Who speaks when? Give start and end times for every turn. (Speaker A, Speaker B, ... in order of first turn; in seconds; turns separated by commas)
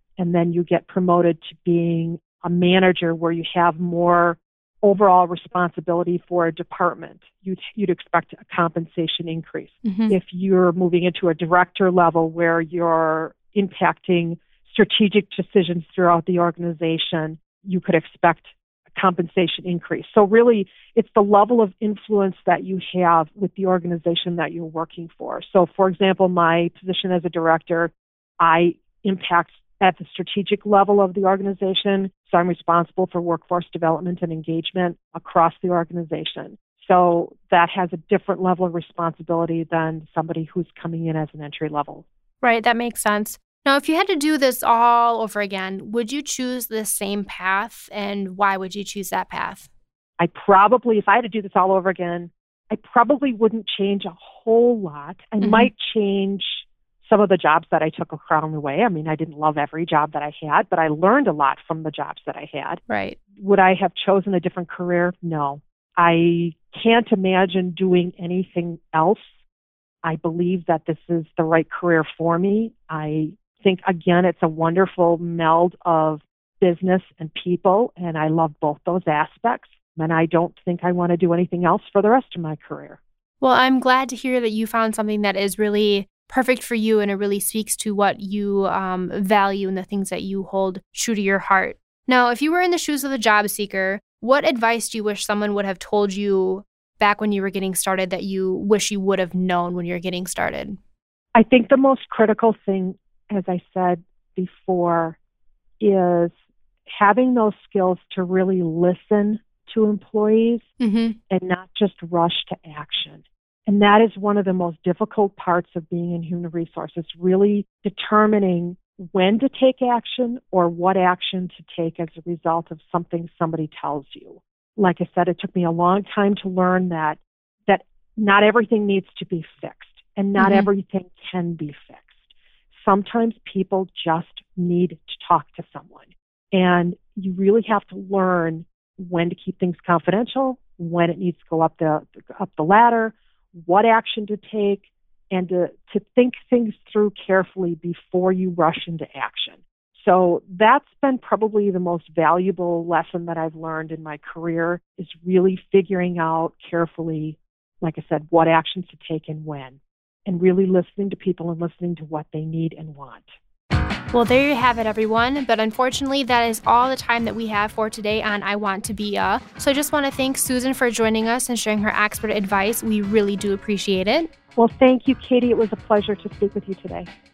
Speaker A: 0.2-42.0, Speaker B: 9.8-10.2, Speaker B: 42.4-49.7, Speaker A: 50.2-62.8, Speaker B: 55.4-55.7, Speaker B: 62.9-63.2, Speaker A: 63.4-69.3, Speaker A: 70.0-83.0, Speaker B: 83.4-100.8, Speaker A: 101.3-105.2, Speaker A: 105.8-106.3, Speaker A: 106.9-110.7, Speaker B: 110.8-111.2, Speaker A: 111.3-163.3, Speaker B: 130.4-130.7, Speaker B: 164.1-174.3, Speaker A: 174.6-177.1